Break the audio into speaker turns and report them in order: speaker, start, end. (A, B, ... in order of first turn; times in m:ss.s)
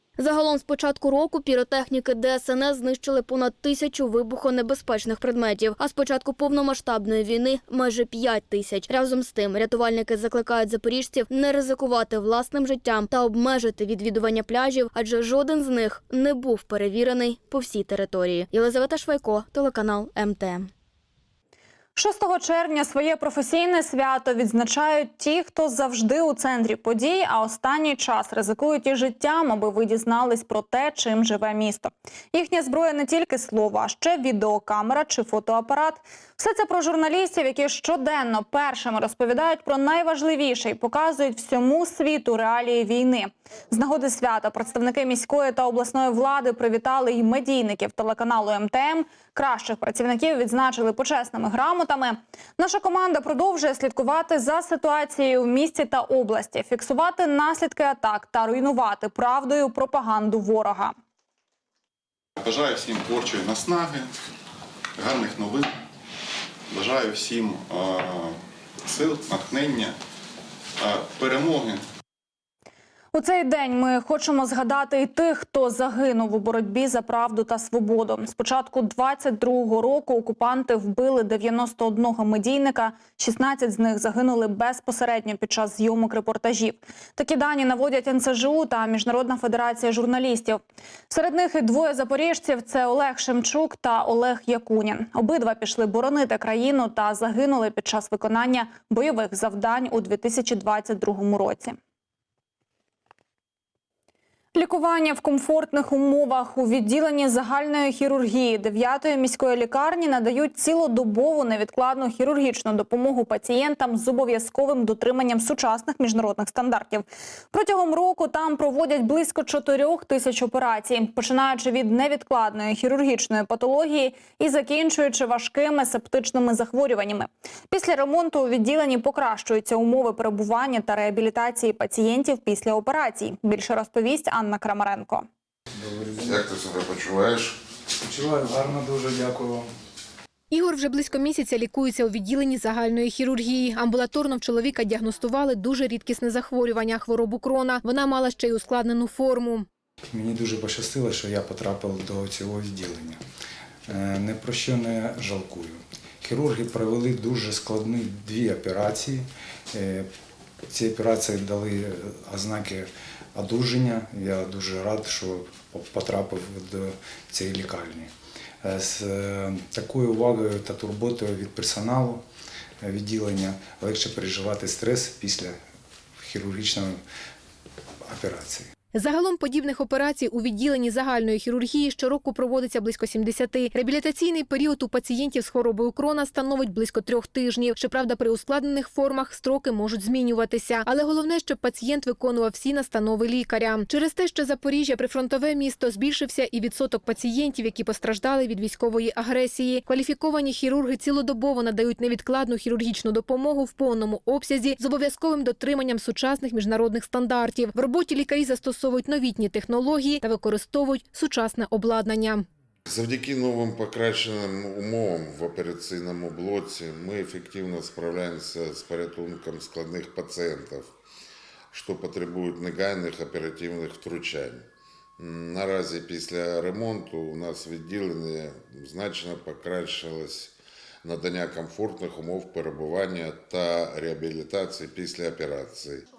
0:00.2-0:20.7 A
0:22.0-1:00.9 B
1:02.4-1:04.1 C
1:05.0-1:05.7 C
1:06.7-1:10.0 C
1:10.8-1:11.9 C
1:13.1-1:41.8 B
1:44.5-2:15.3 B
2:15.8-2:16.5 D
2:16.2-2:17.6 E
2:18.0-2:19.7 D
2:20.5-2:29.7 F
2:30.1-2:33.2 D
2:33.9-2:40.1 D
2:40.7-2:48.1 D
2:48.6-2:52.2 D
2:52.8-2:55.6 D
2:56.2-2:57.0 D
2:58.1-2:58.7 D
2:58.9-3:32.5 F
3:32.9-3:40.9 E
3:41.7-3:44.7 E
3:45.2-3:56.0 E